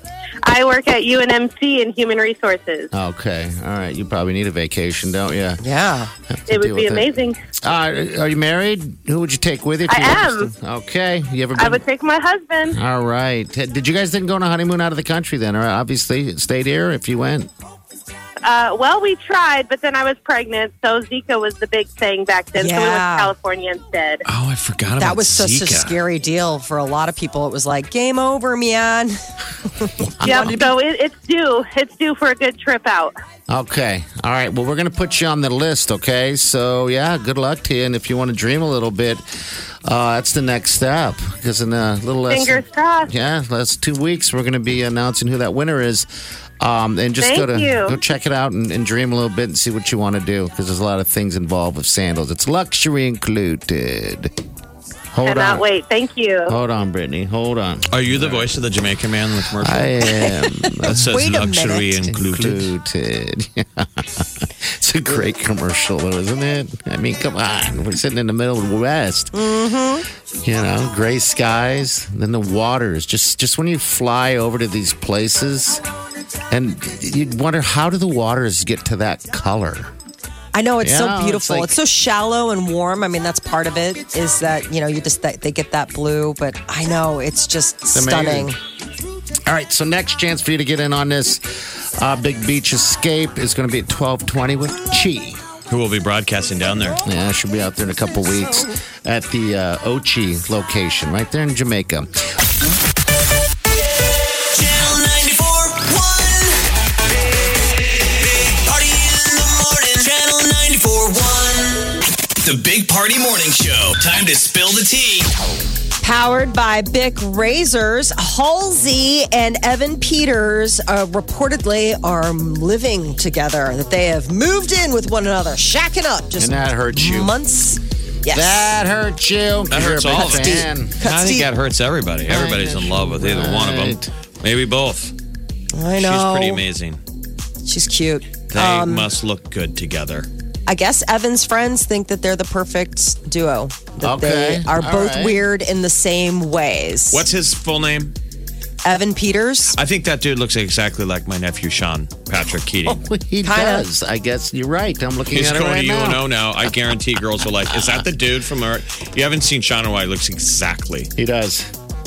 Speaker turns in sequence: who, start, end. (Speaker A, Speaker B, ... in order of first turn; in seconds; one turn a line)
Speaker A: 0.5-2.9
Speaker B: 2.9-5.6
Speaker C: 5.6-6.1
Speaker B: 6.3-11.8
Speaker A: 6.5-7.3
Speaker A: 9.9-10.5
Speaker A: 11.6-12.8
Speaker B: 12.7-17.5
Speaker A: 18.4-24.2
Speaker C: 22.6-23.3
Speaker D: 24.2-26.0
Speaker C: 25.0-29.2
Speaker C: 29.8-30.6
Speaker B: 30.2-30.7
Speaker A: 30.2-33.1
Speaker B: 33.5-39.2
Speaker B: 39.9-46.1
Speaker A: 42.3-43.1
Speaker B: 46.6-54.3
Speaker A: 47.2-48.0
Speaker B: 55.1-55.7
Speaker A: 55.2-56.6
Speaker B: 56.5-58.5
Speaker D: 57.9-60.1
Speaker B: 59.6-61.2
Speaker C: 60.9-61.9
Speaker D: 60.9-62.7
Speaker B: 62.0-69.4
Speaker C: 69.3-70.1
Speaker B: 70.4-75.8
Speaker B: 76.5-79.9
Speaker C: 80.5-88.6
Speaker B: 80.8-81.8
Speaker B: 87.9-88.5
Speaker B: 89.5-91.4
Speaker B: 92.0-95.4
Speaker D: 95.7-97.0
Speaker B: 97.0-102.1
Speaker E: 104.5-106.6
Speaker E: 108.2-115.3
Speaker C: 116.0-128.7
Speaker B: 126.4-127.4
Speaker B: 128.3-131.0
Speaker D: 129.7-135.1
Speaker C: 130.2-131.5
Speaker B: 132.3-134.1
Speaker C: 135.7-136.6
Speaker D: 135.9-137.0
Speaker C: 137.6-139.1
Speaker D: 138.5-140.3
Speaker C: 140.7-147.3
Speaker B: 144.0-145.4
Speaker D: 147.1-148.2
Speaker C: 148.8-149.8
Speaker D: 149.7-153.0
Speaker B: 152.9-156.2
Speaker C: 153.4-153.9
Speaker D: 155.3-161.1
Speaker B: 157.7-158.0
Speaker B: 161.2-161.7